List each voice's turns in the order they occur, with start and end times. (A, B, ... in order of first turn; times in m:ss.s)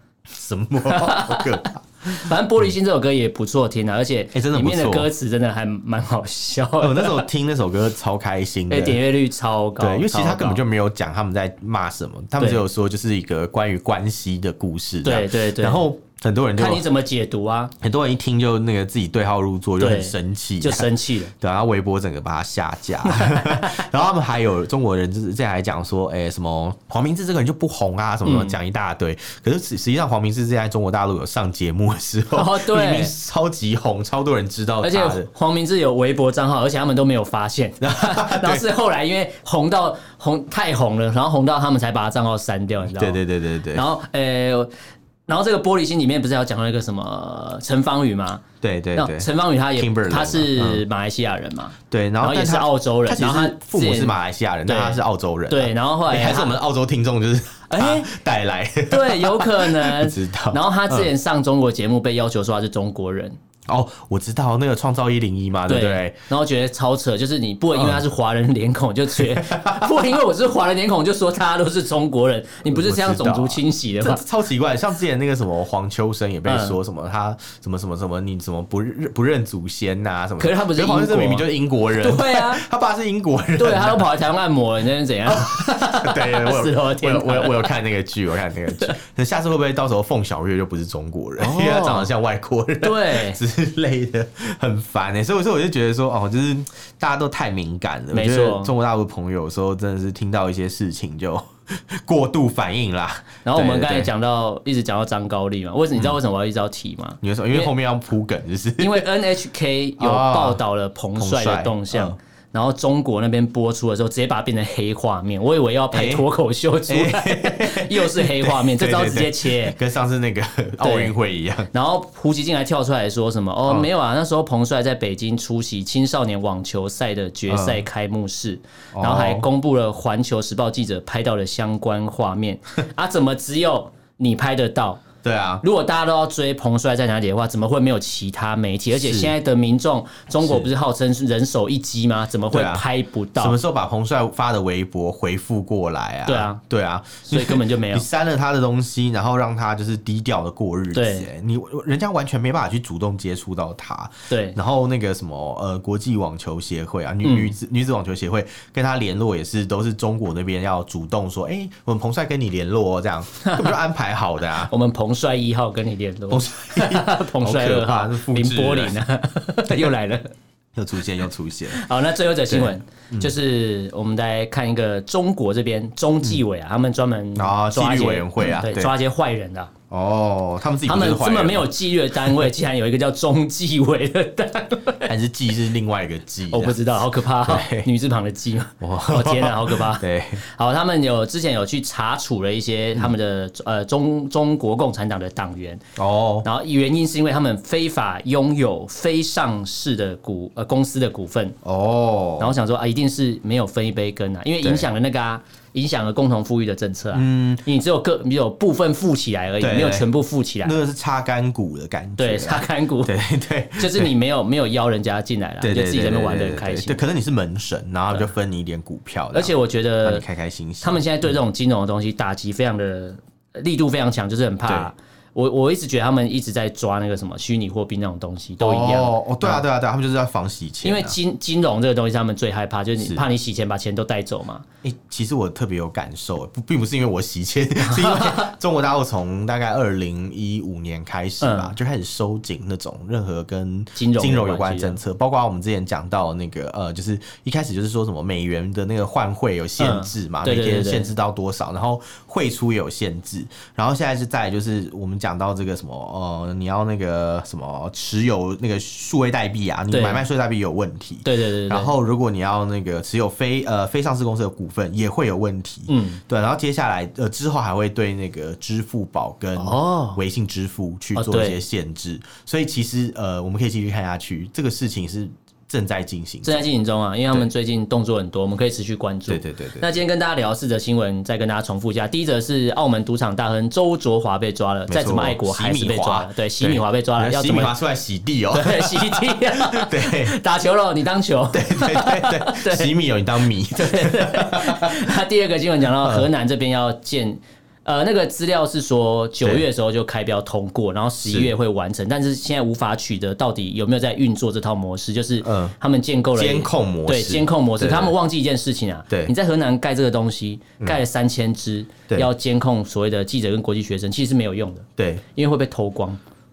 0:00.3-0:02.3 A
0:00.9-0:07.3 B
0:04.3-0:05.1 A
0:06.8-0:09.0 A
0:08.7-0:10.6 B
0:09.8-0:16.9 A
0:15.0-0:15.8 B
0:16.6-0:17.7 B
0:17.8-0:35.3 A
0:19.8-0:21.3 B
0:23.0-0:23.8 B
0:28.2-0:28.6 B
0:32.3-0:33.1 B
0:34.8-0:43.2 B
0:37.8-0:38.7 A
0:42.8-0:43.9 A
0:43.7-0:44.7 B
0:45.3-0:48.4 B
0:48.6-0:50.8 A
0:49.0-0:56.6 B
0:51.9-1:01.1 A
0:57.7-0:58.1 B
0:58.9-1:03.4 B
1:03.7-1:06.2 A
1:05.7-1:14.2 B
1:07.8-1:08.0 A
1:09.1-1:10.0 A
1:12.7-1:24.1 A
1:16.5-1:16.8 B
1:20.4-1:22.6 B
1:23.6-1:27.7 B
1:25.3-1:44.1 A
1:31.4-1:32.1 B
1:32.8-1:33.4 B
1:38.1-1:38.7 B
1:43.4-1:47.7 B
1:47.2-1:49.1 A
1:48.8-1:59.8 B
1:50.0-1:50.6 A
1:51.2-1:52.2 A
1:55.9-1:56.3 A
1:56.9-2:01.7 A
2:00.8-2:01.2 B
2:01.7-2:15.0 B
2:07.5-2:07.8 A
2:08.9-2:09.5 A
2:15.2-2:15.6 A
2:15.6-2:23.6 B
2:18.9-2:19.4 A
2:20.4-2:20.7 A
2:22.5-2:22.9 A
2:23.4-2:44.7 A
2:26.3-2:26.6 B
2:27.2-2:28.1 B
2:30.9-2:31.3 B
2:34.3-2:34.6 B
2:37.2-2:37.6 B
2:43.4-2:43.8 B
2:44.7-2:50.3 B
2:46.3-2:49.0 A
2:50.8-2:51.8 A
2:51.7-2:59.7 B
2:52.5-2:53.3 A
2:57.4-2:58.9 A
2:59.9-3:02.5 A
3:00.9-3:05.1 B
3:05.0-3:07.9 A
3:06.5-3:15.8 B
3:08.8-3:10.4 A
3:16.0-3:16.5 A
3:16.4-3:21.6 B
3:21.6-3:22.6 A
3:22.4-3:30.8 B
3:24.6-3:24.9 A
3:27.1-3:27.7 A
3:29.6-3:30.1 A
3:30.6-3:34.1 A
3:32.2-3:33.1 B
3:33.8-3:37.0 B
3:35.6-3:41.3 A
3:39.3-3:40.2 B
3:40.8-3:49.6 B
3:48.6-3:51.2 A
3:50.8-3:54.6 B
3:54.8-4:36.7 A
3:57.8-3:58.5 B
4:01.4-4:01.8 B
4:04.0-4:05.0 B
4:09.8-4:11.1 B
4:19.9-4:20.3 B
4:21.2-4:21.9 B
4:25.9-4:26.2 B
4:29.6-4:30.2 B
4:31.2-4:31.6 B
4:36.4-4:47.8 B
4:39.3-4:40.0 A
4:44.9-4:50.4 A
4:48.5-4:52.9 B
4:51.5-4:55.1 A
4:53.7-5:16.2 B
4:56.0-4:56.3 A
5:01.2-5:01.5 A
5:05.4-5:05.8 A
5:06.4-5:08.2 A
5:15.0-5:15.2 A